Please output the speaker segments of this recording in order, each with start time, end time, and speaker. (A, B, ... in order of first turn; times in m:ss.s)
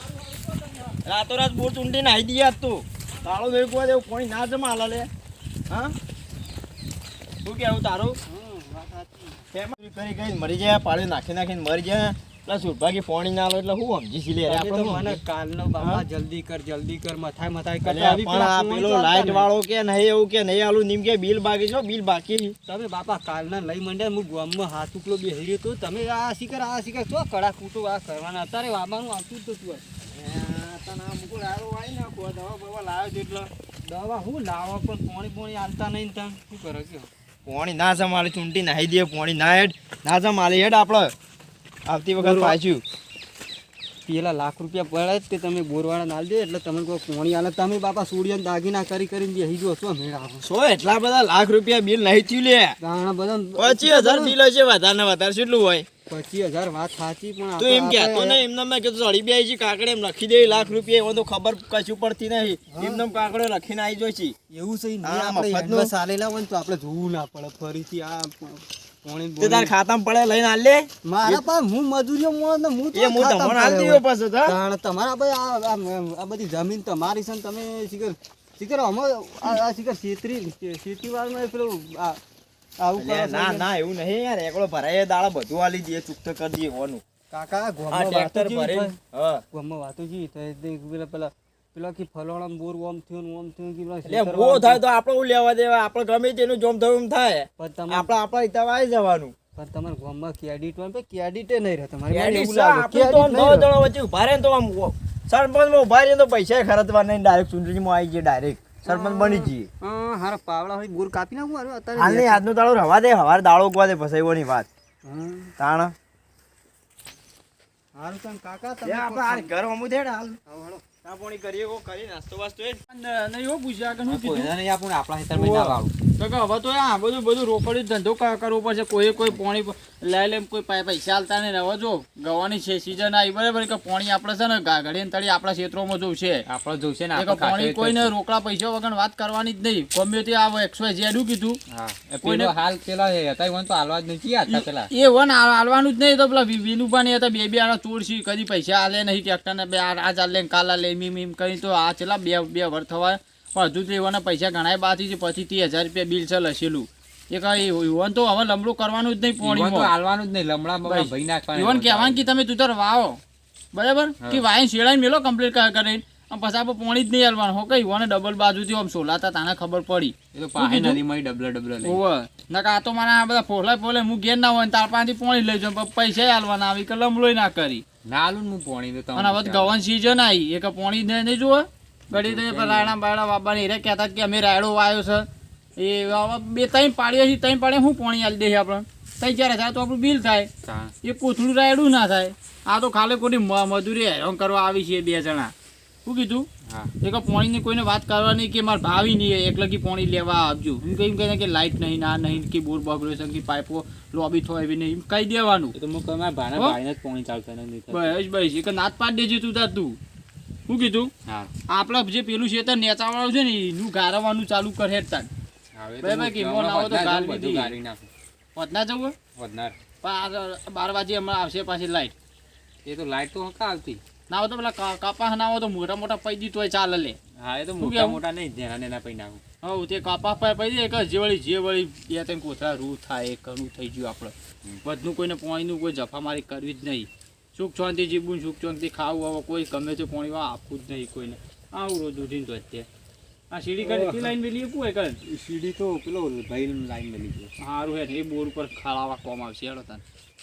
0:00.5-0:00.8 A
0:01.0-0:05.1 B
0:07.4-0:08.2 A
0:08.3-0:09.4 C
0:09.5-0:15.2 B
0:14.4-0:19.5 C
0:15.8-0:16.0 B
0:17.8-0:22.5 B
0:22.7-0:29.8 C
0:30.1-0:33.5 B
0:33.9-0:37.1 C
0:37.4-0:41.1 B
0:41.9-0:42.8 B
0:42.2-0:42.6 C
0:44.0-0:50.4 C
0:50.4-0:52.8 B
0:52.8-0:54.4 C
0:53.6-0:55.9 B
0:56.1-0:58.4 C
0:57.6-1:04.3 B
1:02.7-1:03.0 C
1:04.5-1:09.7 C
1:05.0-1:05.9 B
1:09.4-1:11.4 B
1:11.1-1:22.2 C
1:12.9-1:14.6 B
1:22.8-1:23.7 C
1:23.0-1:27.0 B
1:27.3-1:29.0 C
1:27.9-1:29.4 B
1:29.5-1:34.8 C
1:34.0-1:39.3 B
1:37.6-1:38.1 C
1:39.5-1:43.7 C
1:42.1-1:49.7 B
1:48.8-1:52.4 C
1:52.0-1:54.7 B
1:55.0-1:55.5 C
1:55.6-1:55.9 B
1:57.9-1:59.5 C
1:58.8-2:00.4 B
2:00.5-2:00.8 C
2:01.0-2:02.8 B
2:02.9-2:04.5 A
2:04.0-2:05.9 D
2:05.3-2:16.4 A
2:16.5-2:18.1 D
2:17.2-2:21.6 A
2:21.7-2:24.9 D
2:22.2-2:22.5 A
2:24.5-2:39.9 A
2:39.4-2:42.2 D
2:40.8-2:43.2 A
2:43.7-2:51.0 A
2:50.3-2:52.0 D
2:51.8-2:57.8 A
2:58.0-2:59.7 D
2:59.2-3:05.3 A
3:02.1-3:03.0 D
3:05.8-3:10.5 A
3:10.6-3:10.9 D
3:11.0-3:15.5 A
3:16.0-3:16.5 A
3:17.0-3:25.8 A
3:25.8-3:28.2 D
3:27.9-3:30.0 A
3:30.7-3:31.1 A
3:31.2-3:31.5 D
3:31.7-3:35.3 A
3:35.7-3:38.1 D
3:36.0-3:37.8 A
3:38.5-3:39.2 A
3:39.3-3:39.7 D
3:40.0-3:42.1 A
3:42.8-3:44.0 D
3:44.3-3:47.2 A
3:47.4-3:49.4 D
3:47.8-3:48.2 A
3:49.6-4:02.9 A
4:03.5-4:05.2 A
4:03.8-4:04.3 D
4:05.3-4:07.5 D
4:07.6-4:10.0 A